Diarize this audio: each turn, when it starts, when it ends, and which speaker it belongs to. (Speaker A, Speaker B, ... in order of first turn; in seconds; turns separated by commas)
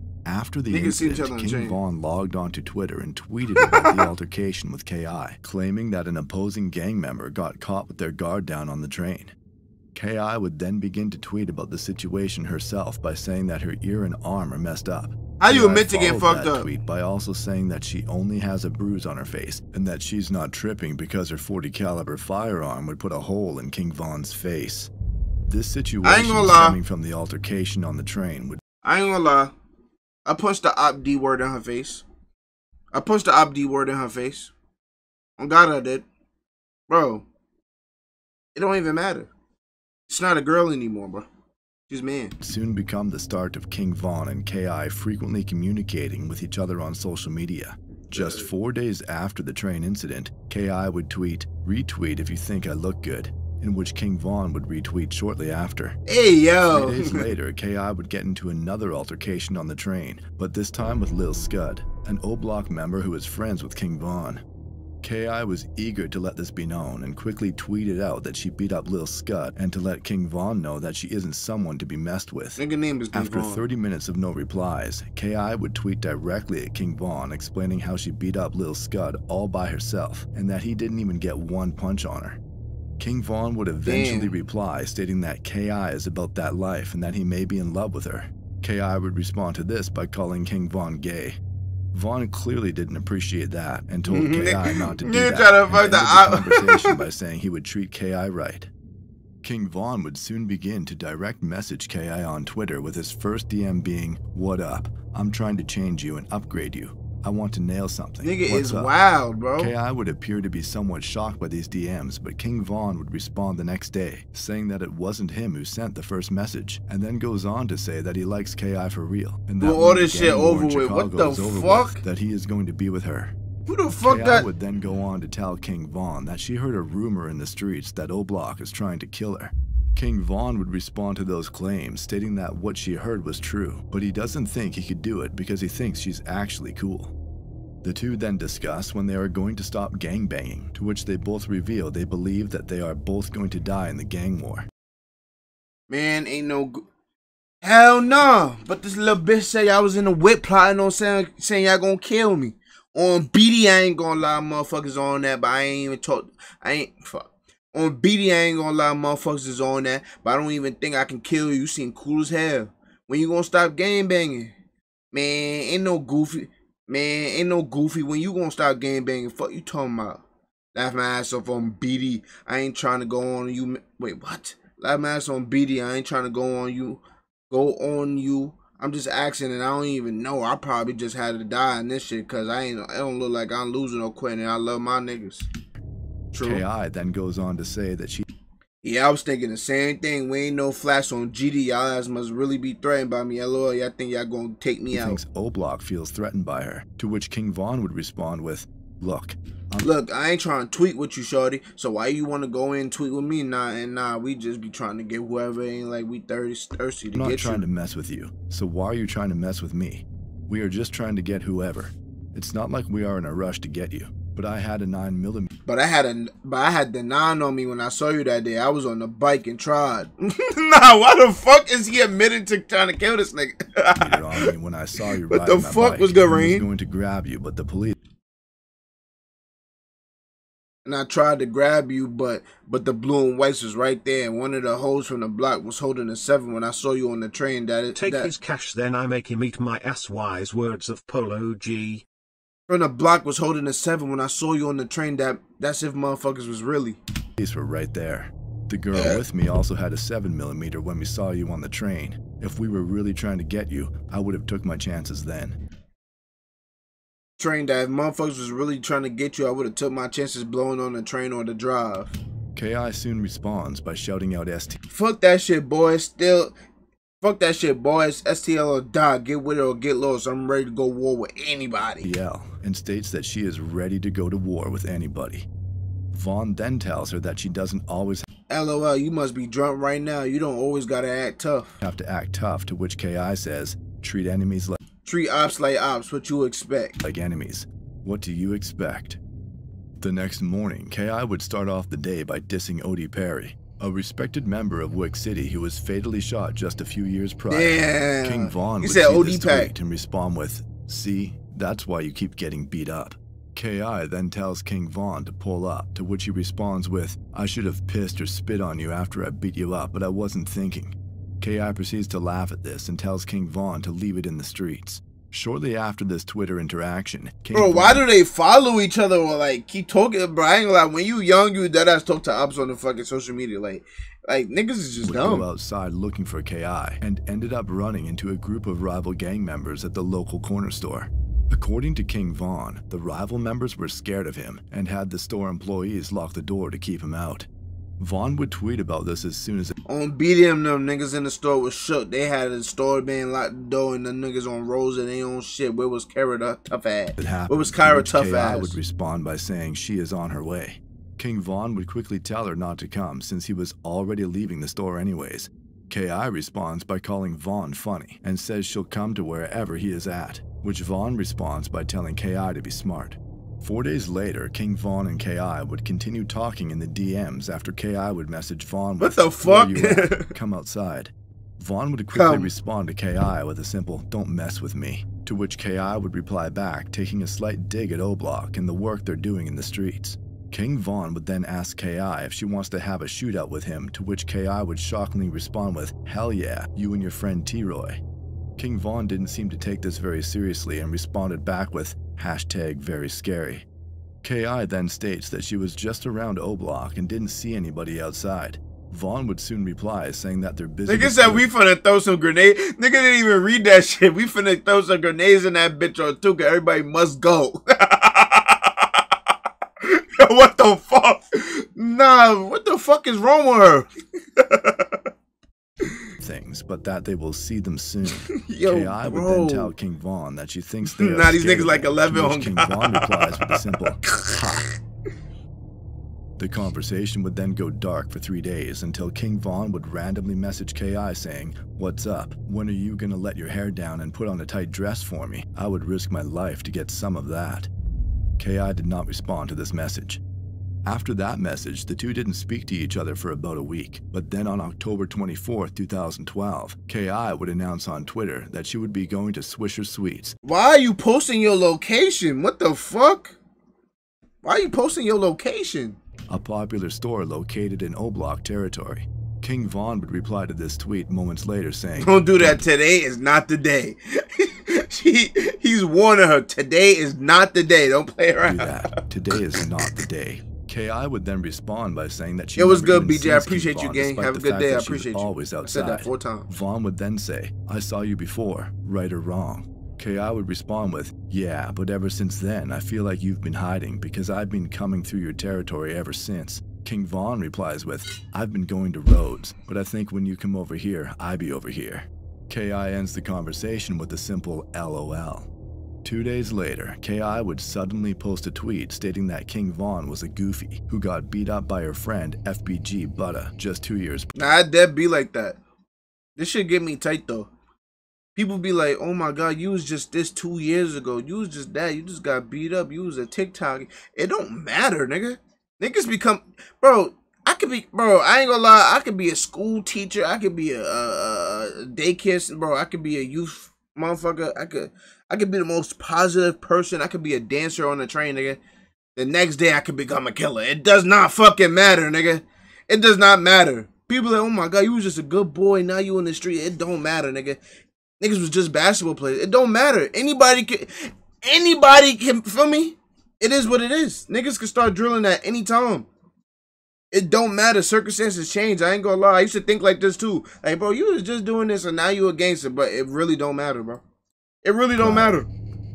Speaker A: 0.2-9.3, Speaker B: 0.7-1.8, Speaker B: 3.5-4.0, Speaker A: 9.9-24.9, Speaker B: 15.4-16.7, Speaker A: 25.5-28.6, Speaker B: 26.0-26.8, Speaker B: 28.8-29.5, Speaker B: 30.2-32.0, Speaker B: 32.9-34.5, Speaker B: 35.4-36.0, Speaker B: 36.9-37.2, Speaker B: 38.5-39.3, Speaker B: 40.1-41.3, Speaker B: 41.9-42.4, Speaker A: 42.4-56.0, Speaker B: 48.1-48.4, Speaker B: 56.1-57.3, Speaker A: 56.7-64.4, Speaker A: 65.0-72.6, Speaker B: 72.6-73.6, Speaker A: 73.1-82.4, Speaker A: 83.0-91.4, Speaker B: 83.8-84.3, Speaker A: 91.9-98.7, Speaker B: 94.1-97.0, Speaker A: 99.4-108.9, Speaker B: 108.2-109.7, Speaker A: 109.6-123.3, Speaker B: 119.6-122.0, Speaker B: 123.7-124.5, Speaker A: 124.0-137.1, Speaker A: 137.8-144.7, Speaker B: 145.9-146.8, Speaker B: 147.6-164.5, Speaker B: 165.1-170.2, Speaker B: 170.7-185.5, Speaker B: 186.3-186.6, Speaker A: 186.4-188.2, Speaker B: 188.8-195.2, Speaker A: 194.9-199.9, Speaker B: 199.8-207.6, Speaker A: 207.1-215.5, Speaker B: 215.7-224.5, Speaker A: 223.9-228.0, Speaker B: 225.3-226.7, Speaker B: 230.8-238.3, Speaker C: 237.9-242.0, Speaker B: 242.7-247.0, Speaker A: 247.4-255.6, Speaker B: 248.9-249.2, Speaker B: 257.4-262.1, Speaker A: 262.5-264.8, Speaker B: 264.9-266.5, Speaker B: 267.2-272.1, Speaker A: 272.0-275.5, Speaker A: 276.1-278.2, Speaker B: 278.5-281.7, Speaker A: 281.8-284.8, Speaker B: 285.0-287.0, Speaker A: 287.0-289.2, Speaker A: 290.0-318.0, Speaker B: 297.5-299.7, Speaker B: 317.5-325.4, Speaker A: 325.0-337.5, Speaker A: 338.0-339.7, Speaker B: 339.9-348.8, Speaker A: 347.2-388.0, Speaker B: 369.0-370.3, Speaker B: 372.1-372.5, Speaker A: 388.6-393.6, Speaker A: 394.2-401.5, Speaker B: 400.9-408.7, Speaker B: 409.8-415.0, Speaker A: 416.2-424.7, Speaker B: 418.1-419.7, Speaker B: 420.8-424.7, Speaker A: 426.4-437.7, Speaker A: 438.4-440.2, Speaker A: 440.9-450.4, Speaker B: 450.4-453.4, Speaker B: 454.4-456.0, Speaker A: 456.3-462.2, Speaker B: 462.0-470.0, Speaker A: 468.4-495.5, Speaker B: 472.6-476.5, Speaker A: 496.0-504.3, Speaker B: 504.3-505.6, Speaker B: 506.4-507.5, Speaker B: 508.3-528.6, Speaker B: 529.1-537.6, Speaker B: 538.2-546.1, Speaker B: 547.1-554.0, Speaker B: 554.6-555.5, Speaker A: 554.9-555.4